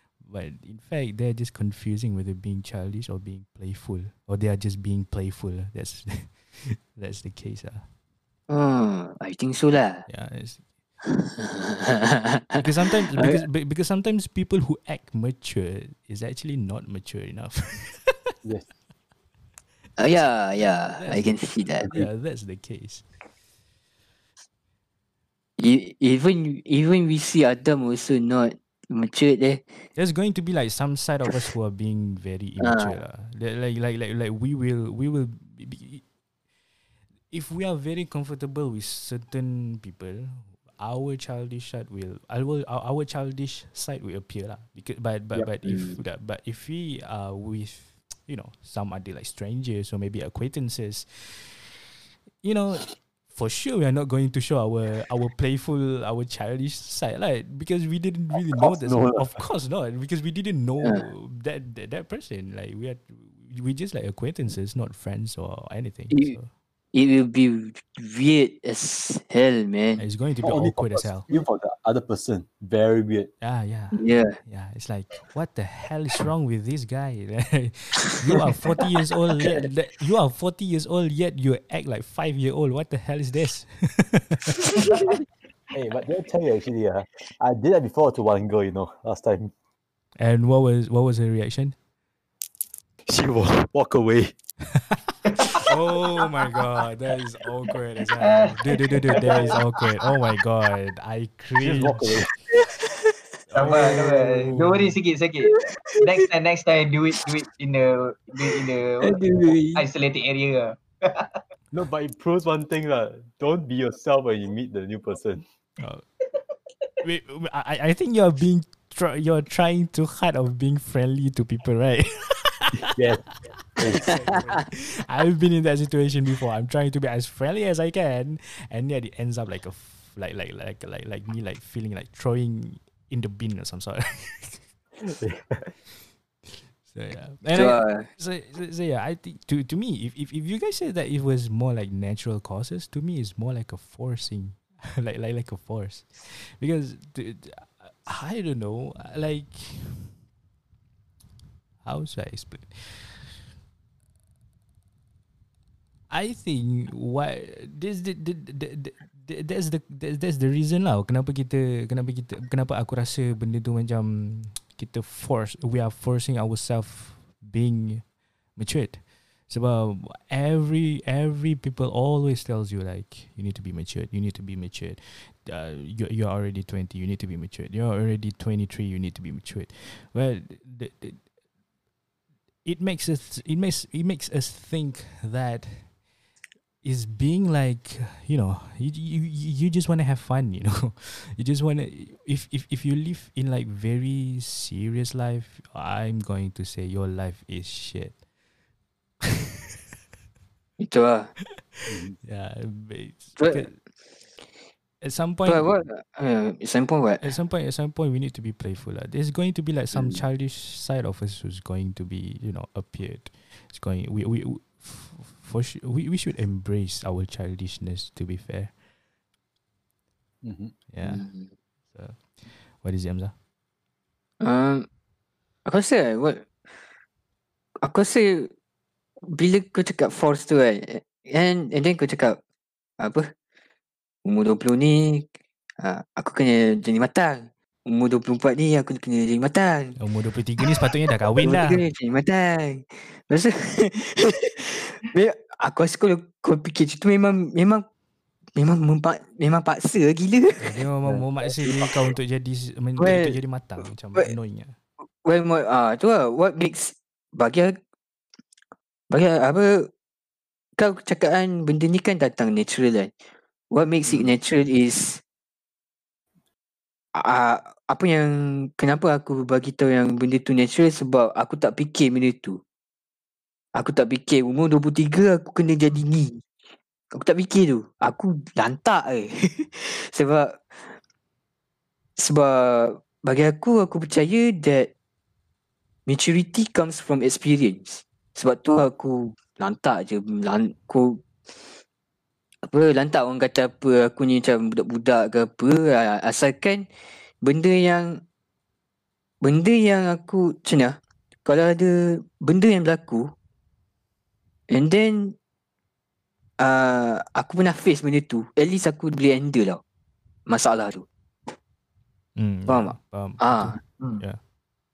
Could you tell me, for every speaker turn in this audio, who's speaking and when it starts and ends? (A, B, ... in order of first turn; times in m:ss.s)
0:00.2-0:07.9 A
0:08.5-0:10.1 B
0:10.1-0:10.7 A
0:11.0-0:13.4 B
0:12.5-0:18.3 A
0:20.0-0:21.9 B
0:20.9-0:23.1 A
0:21.8-0:22.1 C
0:25.6-0:29.7 B
0:30.0-0:36.0 A
0:32.6-0:33.0 B
0:37.3-0:51.8 A
0:45.6-0:46.0 B
0:52.4-1:06.5 A
0:58.5-0:59.4 C
1:06.9-1:10.0 B
1:10.0-1:11.3 A
1:10.4-1:13.3 C
1:13.4-1:24.8 A
1:14.0-1:14.4 B
1:25.7-1:29.5 C
1:30.2-1:31.8 A
1:33.0-1:34.3 C
1:35.5-1:42.4 A
1:38.2-1:39.6 D
1:41.6-1:42.3 C
1:42.5-1:42.9 B
1:43.5-1:44.8 A
1:43.5-1:49.2 D
1:43.7-1:44.7 C
1:45.5-1:46.0 B
1:49.0-1:49.8 B
1:49.7-1:51.3 D
1:51.7-1:55.4 C
1:55.8-1:56.0 A
1:57.0-2:02.9 A
2:02.9-2:04.4 C
2:03.5-2:14.7 A
2:15.0-2:15.7 C
2:16.8-2:30.1 A
2:17.5-2:18.1 B
2:31.8-2:33.4 A
2:36.1-3:01.2 A
3:02.6-3:06.0 A
3:06.8-3:18.2 A
3:20.8-3:21.3 B
3:21.6-3:23.8 A
3:21.9-3:22.2 C
3:23.4-3:23.7 B
3:25.0-3:25.7 A
3:25.4-3:27.3 B
3:27.2-3:38.8 A
3:40.4-3:40.7 C
3:40.9-3:41.3 A
3:41.0-3:41.5 B
3:41.9-3:43.3 A
3:44.4-3:44.9 B
3:45.6-3:46.5 B
3:47.8-3:48.5 B
3:49.3-3:52.4 B
3:53.0-3:53.3 B
3:54.2-3:55.3 B
3:55.8-4:00.0 B
4:00.0-4:01.8 A
4:01.4-4:07.8 B
4:08.6-4:10.8 B
4:10.6-4:14.8 A
4:13.0-4:13.4 B
4:15.2-4:17.8 B
4:19.1-4:19.9 B
4:20.8-4:23.1 B
4:23.7-4:25.2 B
4:27.1-4:32.6 B
4:33.7-4:36.4 B
4:37.1-4:40.9 B
4:42.2-4:44.9 B
4:46.1-4:51.2 B
4:52.6-4:56.9 B
4:57.4-4:58.2 B
4:59.4-5:03.3 B
5:04.7-5:05.4 B
5:06.6-5:09.8 B
5:10.5-5:11.0 B
5:12.4-5:14.4 A
5:12.7-5:13.8 B